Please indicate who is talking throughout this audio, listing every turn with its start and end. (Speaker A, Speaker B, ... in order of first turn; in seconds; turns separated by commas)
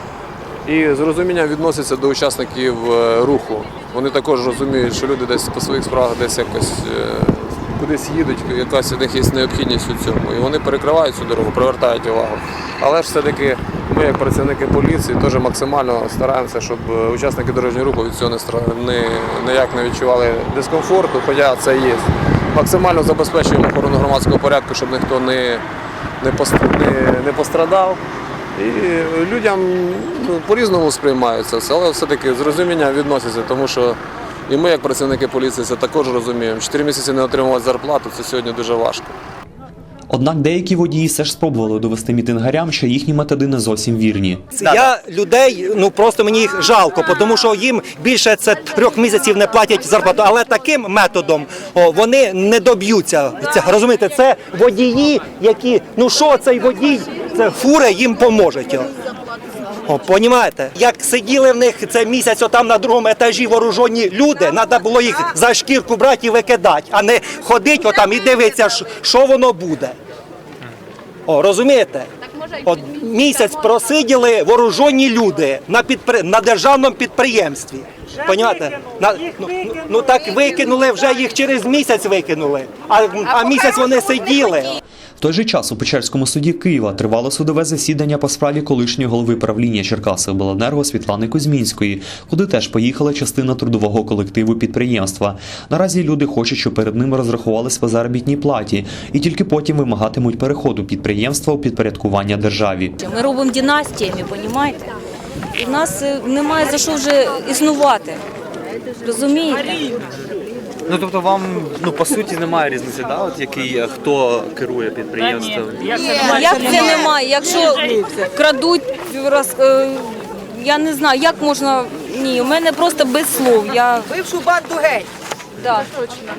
Speaker A: 0.7-25.6, Speaker A: 26.2-28.0, Speaker A: 28.6-39.2, Speaker B: 40.1-44.8, Speaker C: 44.6-58.9, Speaker C: 59.9-70.0, Speaker C: 71.3-72.1, Speaker C: 72.6-84.8, Speaker B: 85.2-103.0, Speaker D: 103.0-104.9, Speaker D: 105.6-108.2, Speaker D: 109.0-109.8, Speaker E: 110.9-116.7, Speaker F: 116.2-118.2, Speaker D: 116.2-124.1, Speaker F: 124.1-125.1, Speaker D: 125.6-125.9